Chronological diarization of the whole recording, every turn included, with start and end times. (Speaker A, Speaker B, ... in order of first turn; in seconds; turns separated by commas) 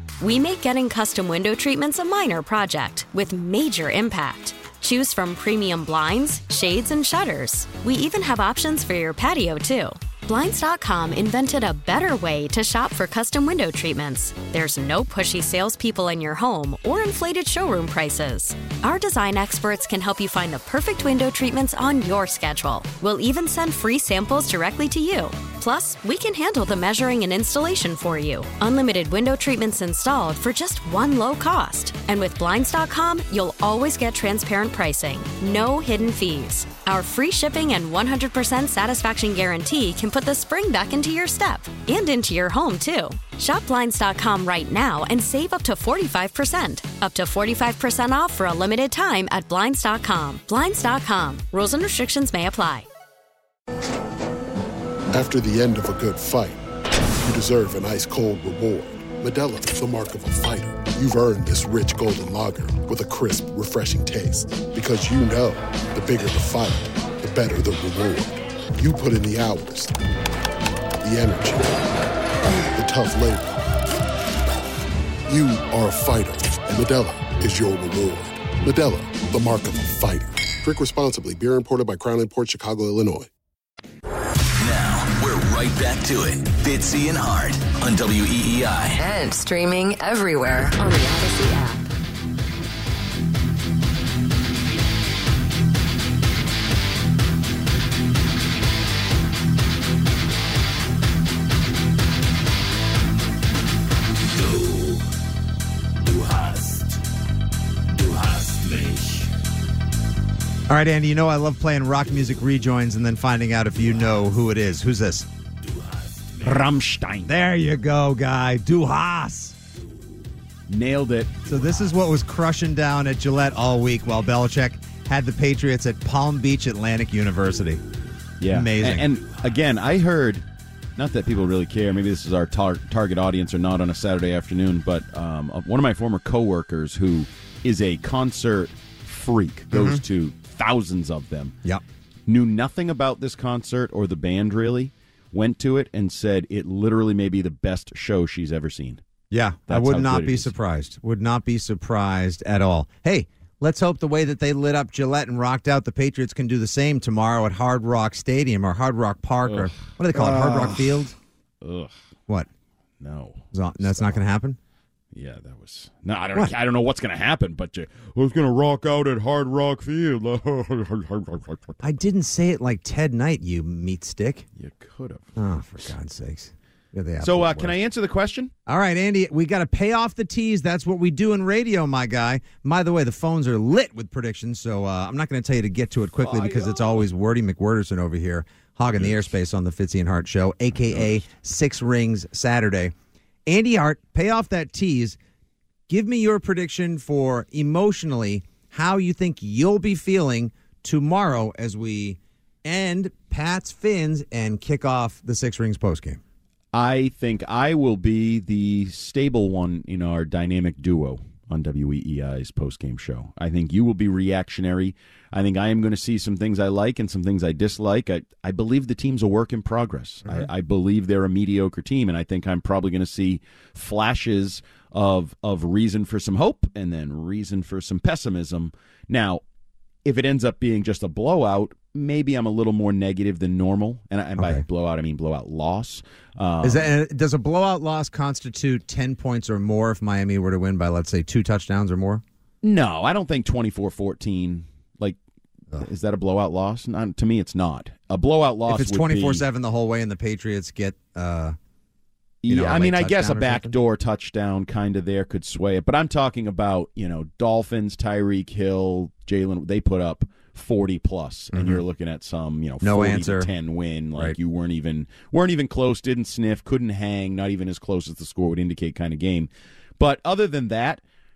Speaker A: 0.2-52.9, Speaker B: 55.1-56.6, Speaker B: 57.2-69.9, Speaker B: 71.0-71.9, Speaker B: 72.7-73.5, Speaker B: 75.3-83.3, Speaker C: 84.6-89.0, Speaker D: 89.0-91.8, Speaker E: 110.7-115.3, Speaker F: 116.4-117.3, Speaker E: 117.2-119.6, Speaker F: 120.7-121.4, Speaker E: 121.5-127.8, Speaker F: 128.4-130.4, Speaker E: 128.5-129.1, Speaker F: 130.9-141.6, Speaker E: 139.7-140.0, Speaker F: 142.3-149.0, Speaker E: 149.3-161.1, Speaker F: 149.7-150.5, Speaker F: 159.4-161.0, Speaker F: 161.6-161.9, Speaker F: 163.0-164.2, Speaker E: 163.5-164.6, Speaker F: 165.1-171.8, Speaker E: 171.8-174.4, Speaker F: 174.6-175.3, Speaker E: 175.3-177.7, Speaker F: 177.2-178.5, Speaker E: 178.7-192.9, Speaker F: 186.2-186.8, Speaker F: 188.9-189.3, Speaker F: 190.9-191.2, Speaker E: 193.4-195.2, Speaker E: 195.9-206.2, Speaker F: 206.7-229.4, Speaker F: 230.0-236.9, Speaker E: 234.4-234.6, Speaker E: 236.6-242.2, Speaker F: 242.6-245.2, Speaker F: 245.7-249.4, Speaker E: 248.7-251.6, Speaker F: 252.4-271.0, Speaker E: 252.5-253.7, Speaker E: 261.5-261.8, Speaker E: 262.8-263.5